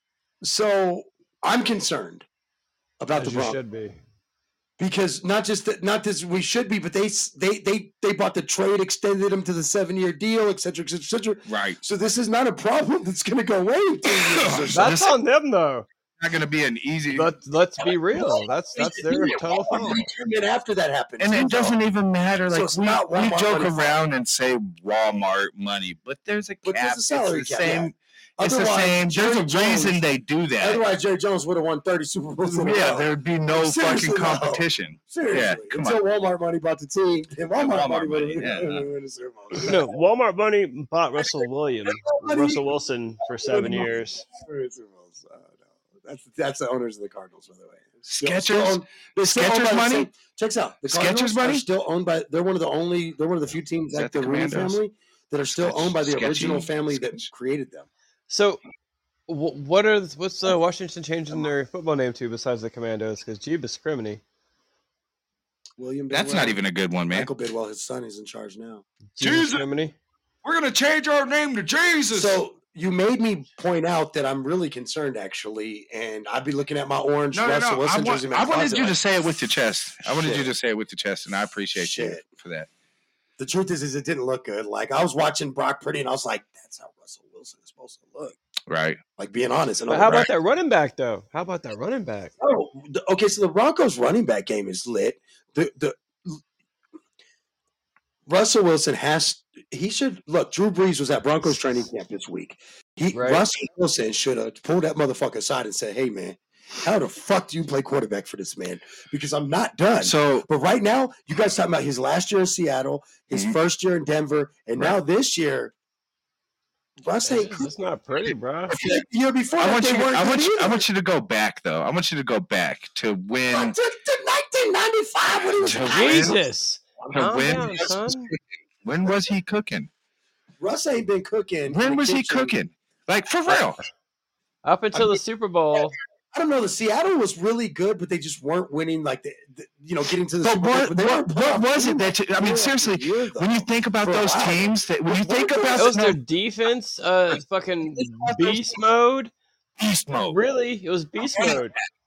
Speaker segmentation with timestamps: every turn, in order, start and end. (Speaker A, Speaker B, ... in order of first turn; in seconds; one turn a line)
Speaker A: 0.4-2.2
Speaker A: 3.0-3.6
Speaker B: 3.2-4.0
Speaker A: 4.8-14.9
Speaker C: 11.5-11.8
Speaker C: 14.3-15.1
Speaker B: 14.7-15.9
Speaker C: 16.2-17.3
Speaker B: 17.1-20.0
Speaker A: 18.8-21.8
Speaker C: 21.2-30.8
Speaker A: 22.5-24.0
Speaker A: 26.6-30.0
Speaker A: 30.6-39.8
Speaker C: 32.4-36.0
Speaker C: 37.5-38.9
Speaker B: 39.6-44.2
Speaker A: 42.0-42.6
Speaker A: 43.4-57.9
Speaker C: 48.1-50.1
Speaker C: 50.9-51.6
Speaker C: 53.9-54.8
Speaker C: 55.6-57.2
Speaker B: 58.3-58.6
Speaker B: 59.3-64.2
Speaker A: 65.8-66.6
Speaker C: 66.1-67.3
Speaker A: 67.1-68.8
Speaker B: 69.2-69.9
Speaker C: 69.2-69.6
Speaker C: 70.4-72.4
Speaker A: 72.1-79.0
Speaker C: 77.3-82.7
Speaker A: 80.1-80.5
Speaker A: 81.8-82.2
Speaker A: 83.4-88.4
Speaker C: 88.7-89.0
Speaker A: 89.2-90.2
Speaker B: 89.9-92.3
Speaker A: 92.4-96.4
Speaker A: 98.2-115.7
Speaker B: 103.1-103.4
Speaker C: 110.0-110.5
Speaker A: 117.0-117.7
Speaker B: 117.2-118.8
Speaker A: 118.7-120.8
Speaker C: 119.6-123.7
Speaker A: 123.5-126.4
Speaker C: 125.6-126.4
Speaker B: 125.9-128.3
Speaker C: 127.1-129.9
Speaker A: 130.6-132.6
Speaker C: 131.7-133.8
Speaker B: 134.6-135.9
Speaker A: 136.3-145.9
Speaker C: 140.4-146.2
Speaker B: 145.8-149.3
Speaker C: 149.8-150.4
Speaker B: 150.2-151.7